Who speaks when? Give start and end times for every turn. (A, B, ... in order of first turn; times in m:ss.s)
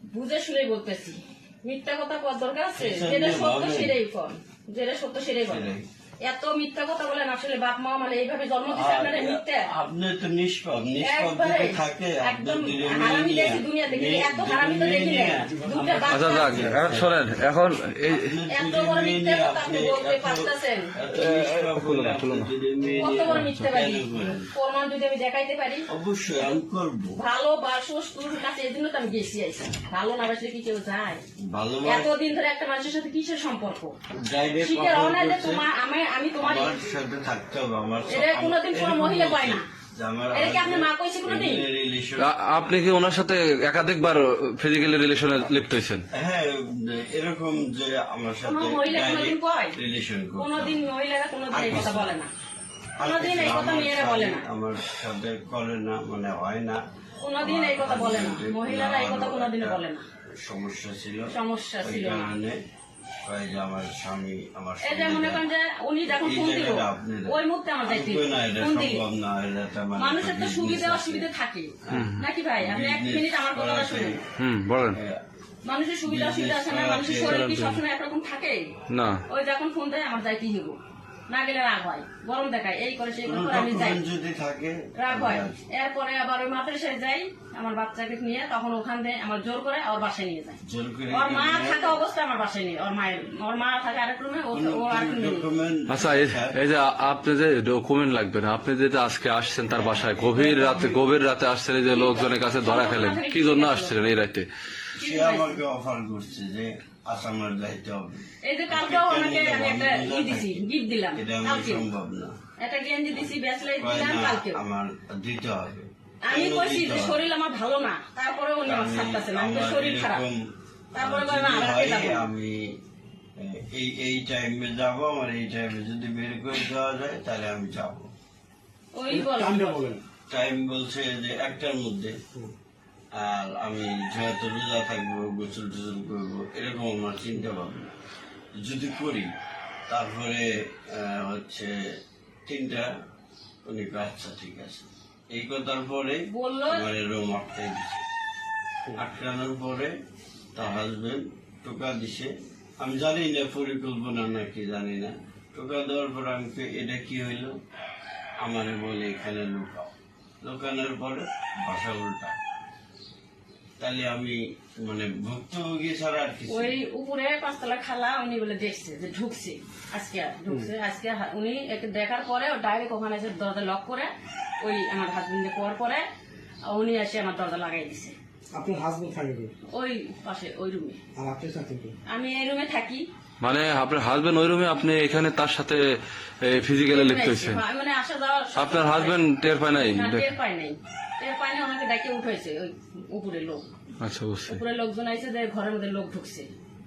0:00.1-0:05.7 A
0:02.8-0:04.0 B
0:05.5-0:05.8 B
0:06.2-0:09.7 A
0:08.7-0:17.1 B
0:11.0-0:16.7 A
0:16.1-0:18.3 C
0:18.1-0:24.5 B
0:18.5-0:20.9 A
0:21.1-0:22.5 C
0:22.8-0:25.9 A
0:23.3-0:23.5 C
0:25.9-0:27.2 B
0:27.2-0:31.2 A
0:31.4-0:32.1 B
0:31.8-0:33.9 A
0:34.2-0:35.6 B
0:34.6-0:36.8 A
0:36.4-0:42.3 B
0:38.1-0:39.6 A
0:40.3-0:41.6 A
0:42.2-0:46.0 C
0:46.1-0:50.8 B
0:48.4-0:49.8 A
0:50.4-0:52.3 A
0:51.5-0:52.1 B
0:53.0-0:56.8 B
0:53.0-0:54.4 A
0:57.2-1:00.0 A
0:57.4-1:02.6 B
1:01.3-1:02.4 A
1:03.2-1:05.5 B
1:04.8-1:09.0 A
1:06.1-1:11.3 B
1:10.0-1:14.2 A
1:11.8-1:14.3 B
1:11.9-1:12.2 C
1:14.4-1:15.0 C
1:14.9-1:15.2 B
1:15.6-1:18.7 A
1:16.0-1:17.4 B
1:17.2-1:17.8 C
1:18.9-1:19.2 C
1:19.3-1:20.8 A
1:21.3-1:24.0 A
1:23.2-1:25.6 B
1:25.0-1:35.5 A
1:30.6-1:32.0 B
1:34.5-1:36.6 B
1:35.9-1:44.5 C
1:39.7-1:41.1 B
1:41.9-1:44.0 A
1:44.9-1:45.6 A
1:45.0-1:52.4 B
1:48.4-1:51.9 A
1:52.6-1:54.6 A
1:53.8-1:57.2 B
1:56.2-2:00.2 A
1:58.6-2:00.4 B
2:00.9-2:02.2 A
2:00.9-2:02.7 B
2:03.4-2:08.1 B
2:08.9-2:10.0 A
2:09.1-2:10.0 D
2:10.3-2:12.2 B
2:13.1-2:17.9 B
2:18.6-2:19.3 B
2:19.9-2:21.8 B
2:22.4-2:22.9 B
2:23.6-2:28.0 B
2:26.3-2:26.9 A
2:28.9-2:29.9 B
2:30.5-2:37.6 B
2:38.4-2:39.9 B
2:40.4-2:42.4 B
2:43.8-2:46.8 B
2:46.5-2:56.0 A
2:56.6-2:58.1 A
2:58.5-2:59.5 D
2:59.7-3:01.0 A
3:01.1-3:02.0 D
3:02.1-3:03.1 A
3:03.4-3:05.9 C
3:06.4-3:07.6 C
3:06.9-3:13.7 A
3:08.5-3:10.2 C
3:14.0-3:14.6 C
3:14.5-3:16.5 A